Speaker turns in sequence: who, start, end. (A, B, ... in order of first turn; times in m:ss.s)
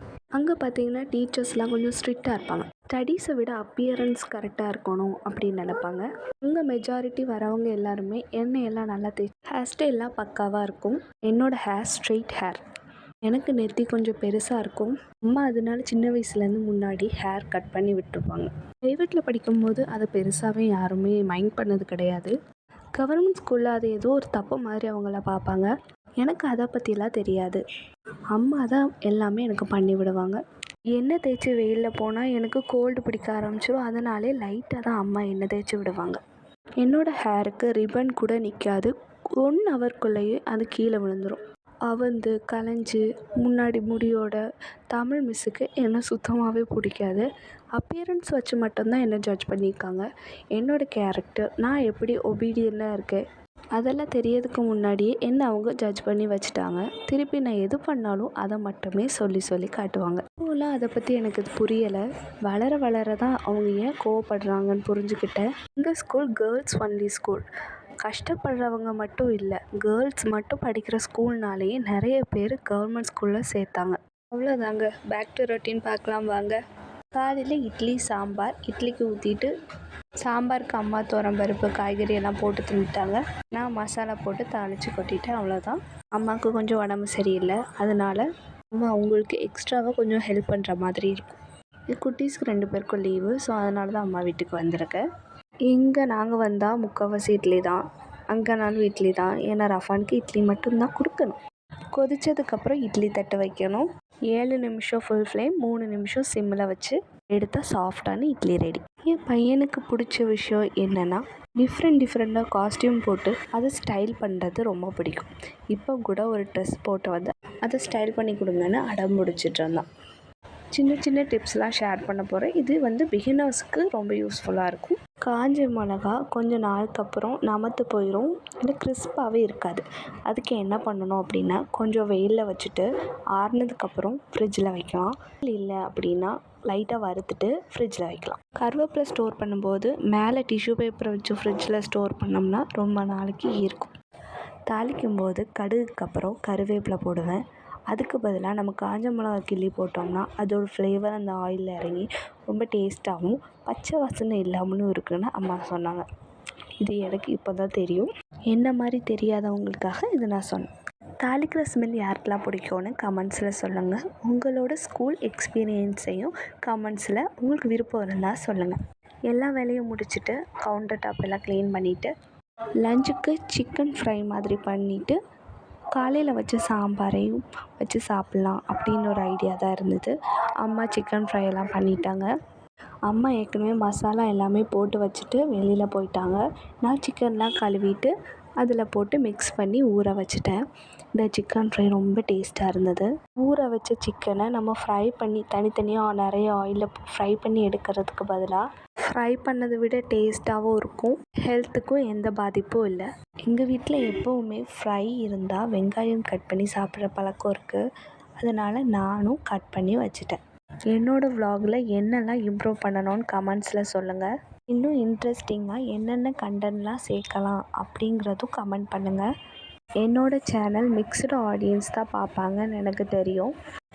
0:00.4-0:12.6 A
0:13.3-0:22.3 A
0:23.0-0:25.7 A
0:26.2-0:27.6 A
0:28.3-0:30.4 A
0:31.0-0:36.2 A
0:36.8-0:44.4 A
0:44.9-0:47.2 A
0:47.8-0:50.0 A
0:50.6-0:53.2 A
0:53.8-1:07.4 A
1:08.0-1:16.6 A
1:17.1-1:19.5 A
1:20.2-1:31.4 A
1:31.9-1:35.0 A
1:35.7-1:41.4 A
1:42.0-1:59.8 A
2:00.8-2:23.9 A
2:24.7-2:27.4 A
2:27.9-2:36.1 A
2:36.8-2:40.7 A
2:41.2-2:48.8 A
2:49.3-2:52.1 A
2:52.8-2:55.2 A
2:56.0-3:02.3 A
3:03.1-3:10.6 A
3:11.2-3:27.8 A
3:28.4-3:30.4 A
3:30.9-3:39.3 A
3:40.0-3:43.5 A